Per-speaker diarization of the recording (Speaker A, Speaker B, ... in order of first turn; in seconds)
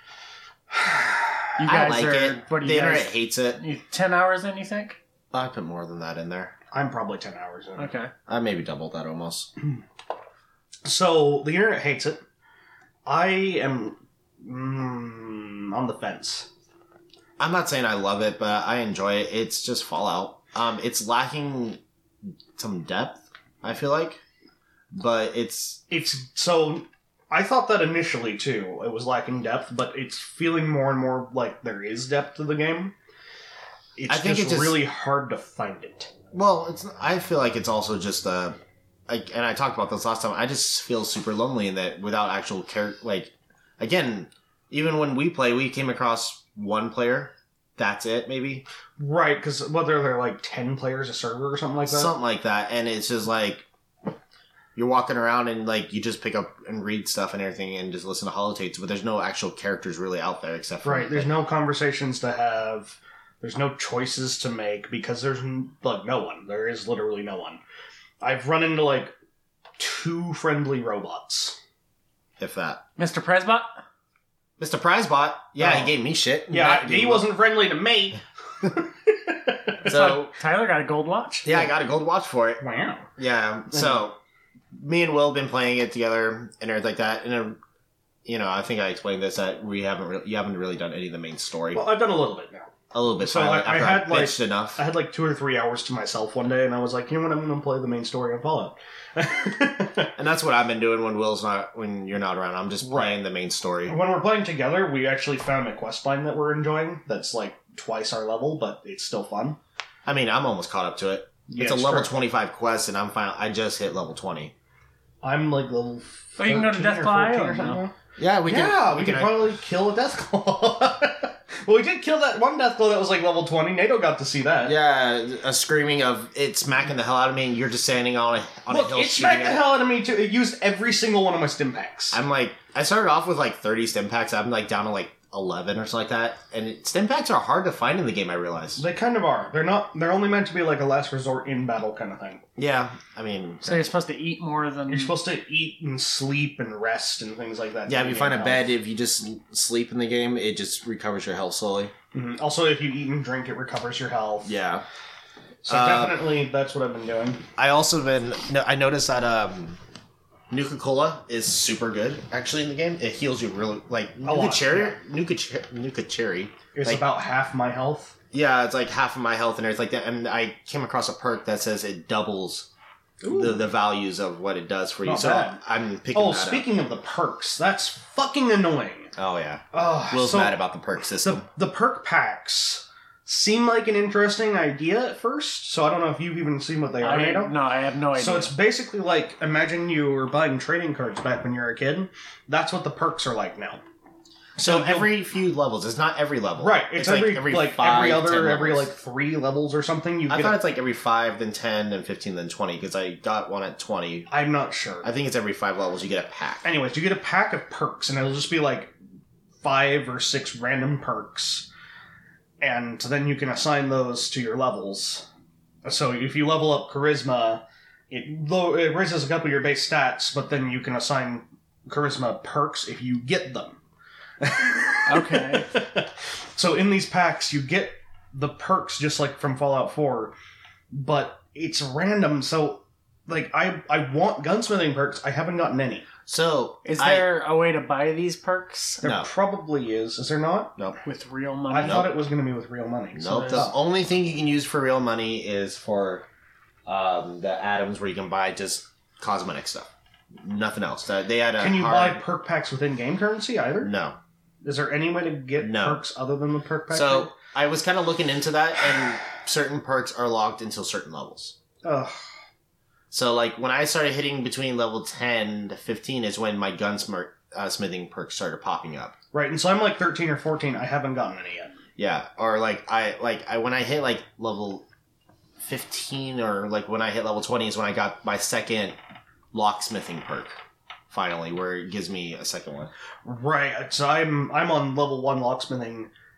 Speaker A: 0.8-1.1, 6.7-7.9, 10.8-12.2, 13.1-16.5, 25.9-32.9, 34.0-36.1, 49.0-52.1, 60.8-67.6, 68.2-69.1, 69.8-71.6, 75.6-75.9, 76.5-79.7, 82.6-83.1, 83.7-84.0, 91.7-92.7, 93.2-100.1, 102.8-103.2, 103.9-109.6, 111.5-112.1, 115.2-117.9, 118.5-124.7, 128.7-132.2, 138.8-142.4, 144.9-148.7, 152.1-154.5, 155.6-157.4, 164.2-165.0, 166.7-168.1, 173.2-173.6, 175.0-175.6, 176.1-179.1, 179.7-180.6, 181.2-187.5, 188.2-193.8, 194.6-195.1, 196.6-200.6, 204.3-205.1, 206.6-208.9, 209.6-211.7, 212.6-215.3, 215.8-223.8, 224.4-230.3, 230.9-236.1, 239.0-240.7, 241.7-243.7, 251.6-253.9, 254.6-257.3, 261.8-262.2, 269.3-271.8, 283.2-286.1
Speaker B: 1.6-5.0, 7.8-8.1, 73.0-73.7, 79.8-81.6, 116.4-117.8, 143.6-145.2, 187.0-188.5, 225.1-225.7, 236.8-239.1, 241.0-242.1, 243.3-243.7
Speaker C: 1.6-3.6, 5.3-6.5, 8.3-9.5, 17.4-21.8, 22.6-24.2, 24.9-25.8, 34.1-34.8, 36.3-38.5, 39.1-48.6, 51.9-53.6, 54.8-61.3, 72.4-72.8, 74.6-77.3, 79.8-80.3, 81.4-82.6, 83.2-84.2, 84.7-87.6, 88.2-91.8, 92.9-94.8, 100.2-104.0, 110.0-114.5, 118.2-119.5, 124.6-129.6, 132.1-138.8, 142.6-143.9, 147.9-151.9, 154.4-154.8, 155.7-156.3, 157.6-159.8, 160.5-167.0, 168.3-172.7, 173.3-176.7, 179.2-181.4, 194.6-198.9, 200.3-204.3, 205.0-206.7, 236.2-237.2, 239.0-239.3, 241.8-242.1, 243.1-246.2, 246.8-252.2, 253.8-254.2, 255.6-256.0, 256.9-261.6, 263.1-269.1, 272.0-274.8, 275.6-278.9, 279.5-280.6, 281.1-282.9